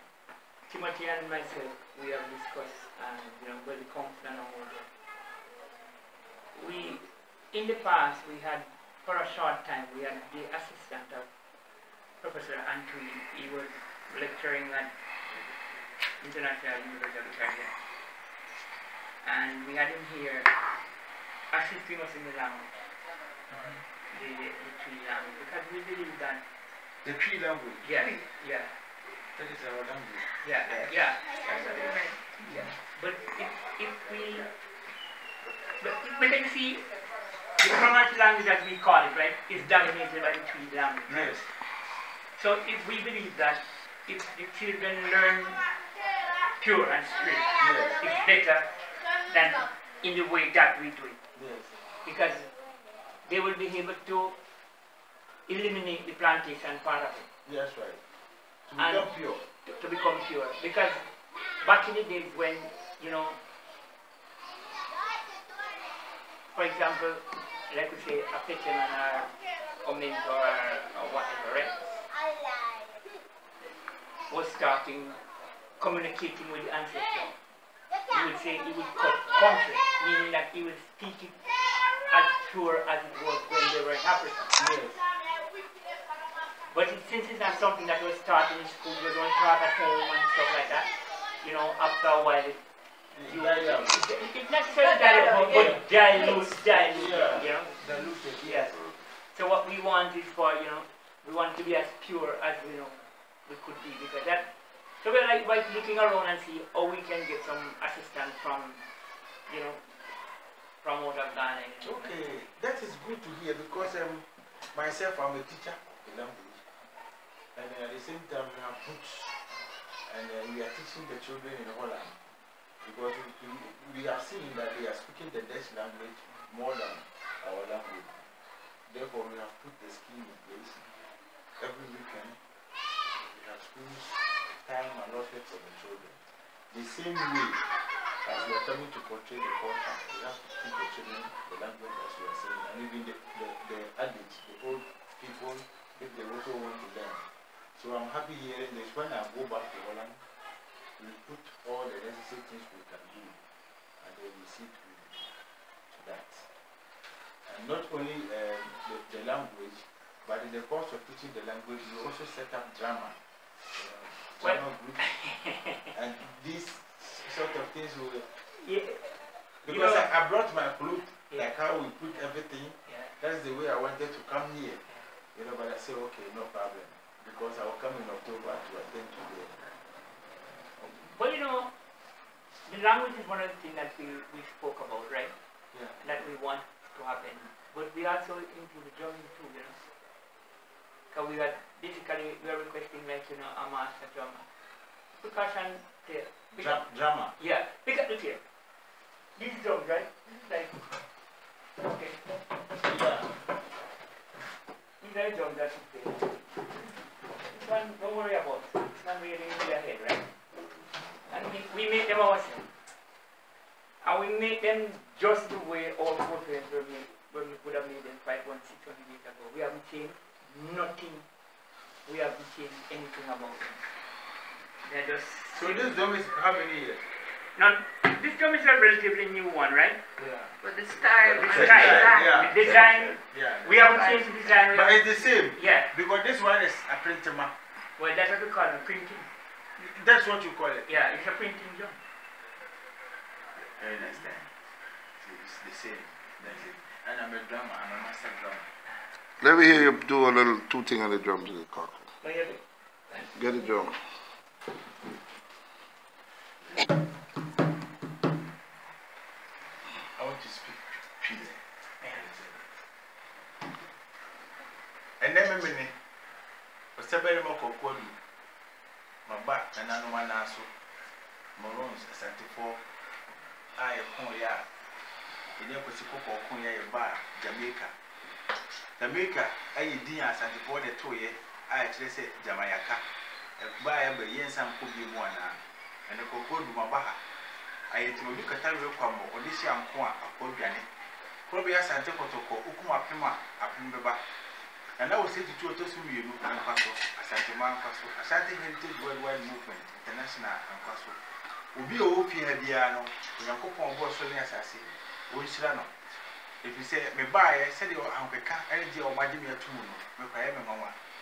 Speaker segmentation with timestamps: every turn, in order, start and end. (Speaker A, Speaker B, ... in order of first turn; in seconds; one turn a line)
Speaker A: 0.7-4.9
Speaker A: 6.5-11.2
Speaker A: 12.2-14.9
Speaker A: 16.2-17.7
Speaker A: 19.2-20.5
Speaker A: 21.5-22.7
Speaker B: 23.5-23.8
Speaker A: 24.1-26.4
Speaker B: 27.0-27.9
Speaker A: 27.8-28.8
Speaker B: 29.3-30.9
Speaker A: 30.4-34.5
Speaker C: 31.5-32.2
Speaker A: 35.8-36.8
Speaker A: 37.6-41.4
Speaker B: 41.1-41.5
Speaker A: 42.4-45.6
Speaker A: 46.6-48.7
Speaker B: 47.6-48.0
Speaker A: 49.2-51.2
Speaker B: 51.3-51.8
Speaker A: 52.0-52.5
Speaker A: 53.2-54.4
Speaker A: 55.5-57.3
Speaker B: 57.4-58.0
Speaker B: 58.7-59.4
Speaker A: 58.8-59.1
Speaker A: 59.6-61.0
Speaker A: 61.6-63.4
Speaker A: 66.5-69.3
Speaker A: 69.8-71.8
Speaker A: 74.3-75.2
Speaker A: 75.8-77.3
Speaker A: 78.1-81.3
Speaker A: 82.1-84.6
Speaker B: 84.5-85.0
Speaker A: 86.7-92.6
Speaker B: 93.1-94.0
Speaker A: 93.2-97.8
Speaker C: 95.1-96.4
Speaker B: 95.5-95.8
Speaker B: 96.6-98.9
Speaker A: 98.4-98.8
Speaker A: 99.3-108.8
Speaker A: 109.5-109.9
Speaker A: 110.8-112.2
Speaker B: 111.8-116.6
Speaker B: 117.5-119.3
Speaker B: 120.0-122.1
Speaker B: 122.8-128.2
Speaker B: 128.9-130.8
Speaker B: 131.6-132.4
Speaker B: 133.3-137.6
Speaker B: 138.2-147.2
Speaker B: 147.7-150.2
Speaker B: 151.0-153.4
Speaker B: 154.0-155.2
Speaker B: 155.9-156.5
Speaker B: 157.4-163.2
Speaker B: 163.7-165.0
Speaker A: 164.4-165.9
Speaker B: 165.9-168.3
Speaker A: 168.5-170.1
Speaker B: 169.6-174.8
Speaker A: 172.9-173.1
Speaker B: 175.3-179.6
Speaker A: 180.8-181.7
Speaker A: 182.7-185.3
Speaker B: 185.7-186.0
Speaker A: 186.0-189.8
Speaker A: 191.1-194.4
Speaker A: 195.2-196.8
Speaker B: 196.5-197.3
Speaker A: 197.4-198.4
Speaker A: 199.3-200.8
Speaker A: 201.8-202.4
Speaker B: 202.8-203.4
Speaker A: 205.0-206.6
Speaker A: 207.2-210.3
Speaker A: 211.2-212.7
Speaker A: 214.0-221.2
Speaker A: 222.1-223.8
Speaker A: 224.8-225.9
Speaker B: 225.5-227.0
Speaker A: 227.5-230.0
Speaker B: 230.2-230.5
Speaker C: 230.6-233.1
Speaker B: 231.2-232.7
Speaker A: 231.4-235.9
Speaker B: 233.3-233.9
Speaker C: 233.7-234.5
Speaker B: 234.7-237.5
Speaker A: 238.0-239.3
Speaker B: 239.8-240.9
Speaker A: 240.9-242.0
Speaker B: 243.5-248.7
Speaker D: 249.4-252.0
Speaker A: 252.2-253.9
Speaker D: 253.3-253.9
Speaker B: 260.1-262.7
Speaker A: 262.0-262.3
Speaker B: 265.2-265.9
Speaker B: 266.9-268.1
Speaker B: 269.2-270.7
Speaker B: 271.6-272.8
Speaker B: 273.8-274.7
Speaker B: 275.6-277.9
Speaker B: 279.0-283.0
Speaker B: 283.6-287.2
Speaker B: 287.9-290.9
Speaker B: 291.5-294.2
Speaker B: 295.0-301.2
Speaker B: 301.7-305.9
Speaker B: 306.6-310.9